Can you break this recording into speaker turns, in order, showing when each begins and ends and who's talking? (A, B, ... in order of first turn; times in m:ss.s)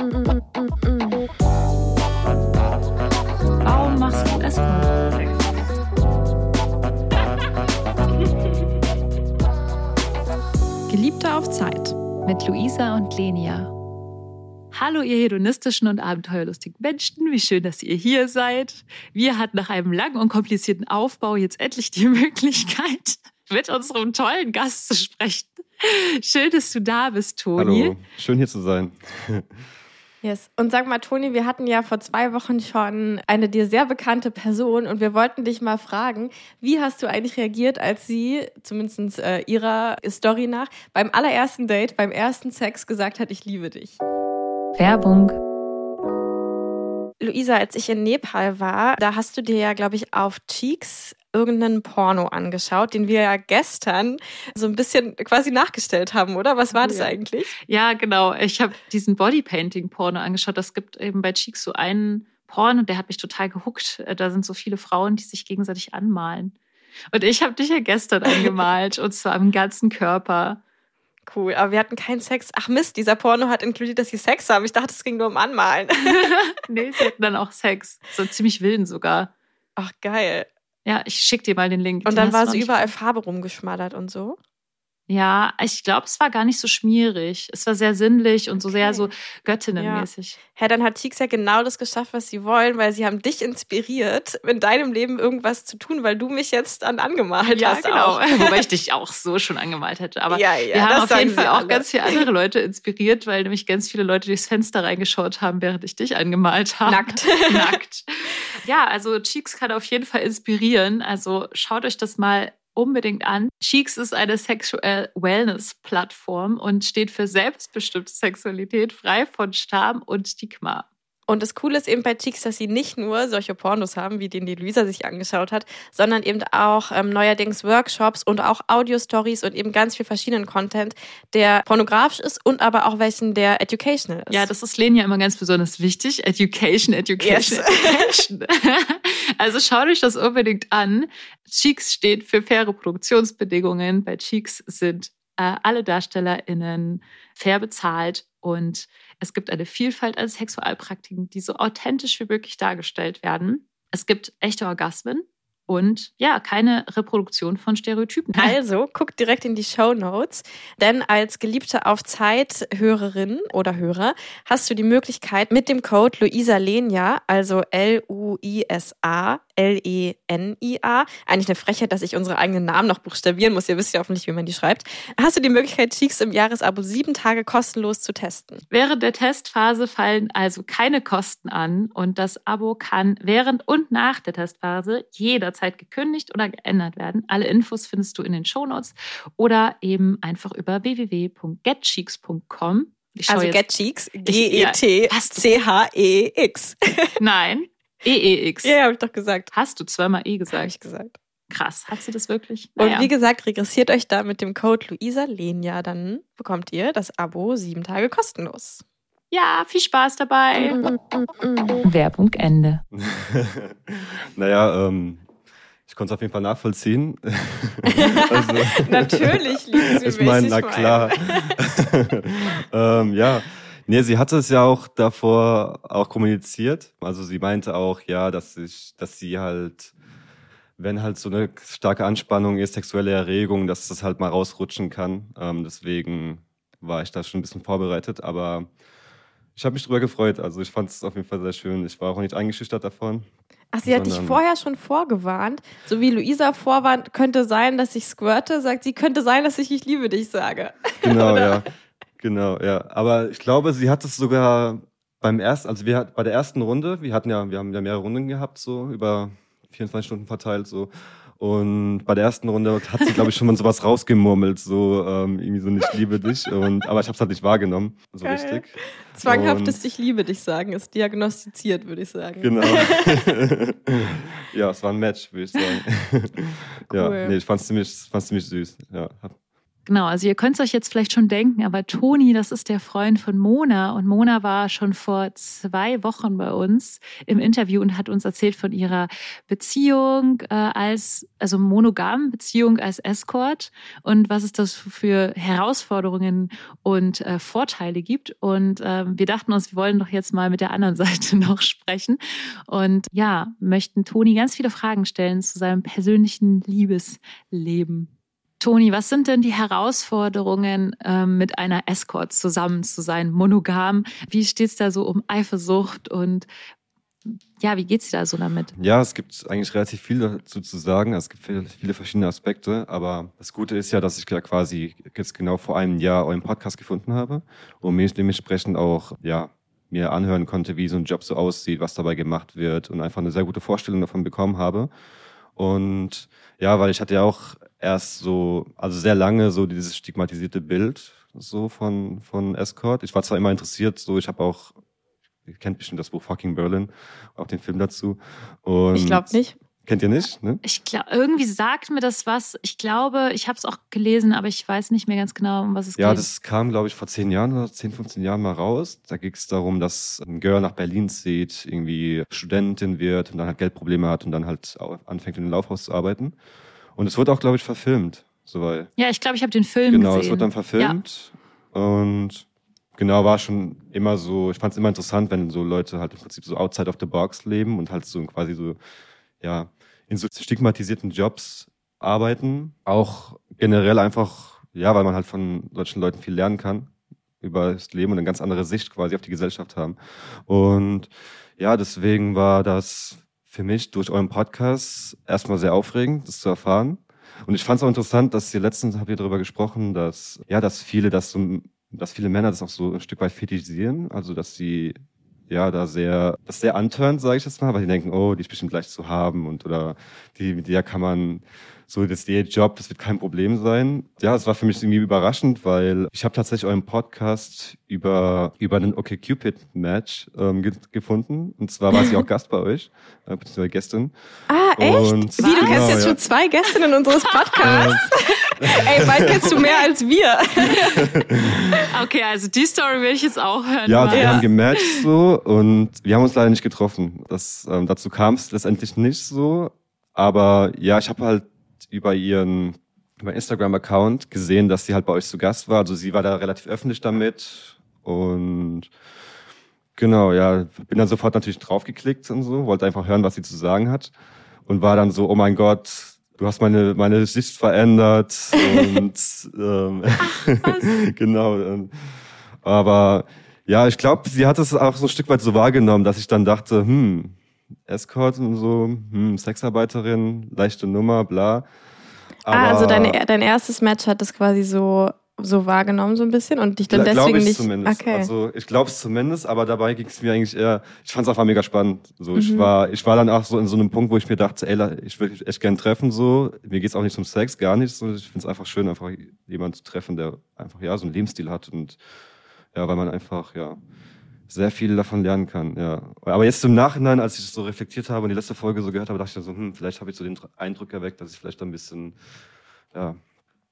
0:00.9-0:01.2 A
0:03.6-0:05.4 B
0:10.9-0:12.0 A
0:12.2-0:13.7 B
0:14.7-0:28.0 B
0:27.6-0:29.4 C
0:30.2-0:44.0 A
0:44.8-0:45.4 B
0:47.2-0:57.5 A
0:56.8-0:57.2 B
0:57.7-1:06.5 B
1:07.1-1:10.6 B
1:08.2-1:08.5 A
1:11.3-1:16.2 A
1:16.0-1:19.3 B
1:19.8-1:20.5 A
1:20.9-1:22.9 B
1:22.1-1:24.4 A
1:25.1-1:30.4 B
1:28.8-1:29.1 A
1:29.8-1:38.6 A
1:37.5-2:00.9 B
1:40.3-1:42.2 A
1:46.9-1:47.8 A
2:01.3-2:14.5 A
2:14.3-2:38.6 B
2:17.2-2:18.2 A
2:38.4-2:58.6 A
2:58.7-3:13.7 B
3:13.3-3:17.2 A
3:14.2-3:15.6 B
3:17.2-3:18.8 B
3:18.6-3:19.5 A
3:19.5-3:20.7 B
3:20.5-3:21.2 A
3:21.5-3:23.1 B
3:22.8-3:28.8 A
3:29.3-3:30.8 B
3:30.6-3:31.8 A
3:31.8-3:32.8 B
3:32.9-3:35.2 C
3:35.9-3:49.9 C
3:37.9-3:41.6 A
3:50.8-3:58.7 C
3:59.6-4:03.3 C
4:03.7-4:11.6 A
4:03.8-4:04.4 C
4:11.0-4:11.7 C
4:12.2-4:29.8 C
4:28.2-4:33.3 A
4:32.4-4:39.4 C
4:36.9-4:37.4 A
4:39.9-5:08.1 B
5:08.6-5:16.5 B
5:17.6-5:18.7 B
5:18.8-5:34.9 C
5:35.6-5:44.7 C
5:45.5-5:50.6 C
5:48.9-5:49.6 A
5:50.6-5:56.3 B
5:56.0-6:06.4 C
6:07.0-6:08.9 C
6:09.0-6:11.0 B
6:09.9-6:12.5 C
6:13.0-6:18.8 C
6:19.4-6:26.9 C
6:27.4-6:45.0 C
6:45.5-7:04.1 C
7:04.5-7:11.0 A
7:04.8-7:06.2 C
7:05.4-7:06.2 B
7:07.3-7:08.0 B
7:07.6-7:08.0 C
7:08.6-7:09.5 C
7:10.6-7:11.0 B
7:10.7-7:11.9 C
7:11.7-7:14.9 B
7:13.9-7:28.9 C
7:14.1-7:14.4 A
7:30.0-7:34.1 C
7:34.7-7:41.9 C
7:38.6-7:39.0 A
7:40.2-7:40.9 A
7:42.6-7:47.4 C
7:47.9-7:51.7 C
7:52.5-7:53.2 C
7:52.5-7:58.3 A
7:56.9-8:12.0 C
8:02.4-8:02.7 A
8:12.7-8:13.8 C
8:14.5-8:22.2 C
8:22.9-8:23.2 C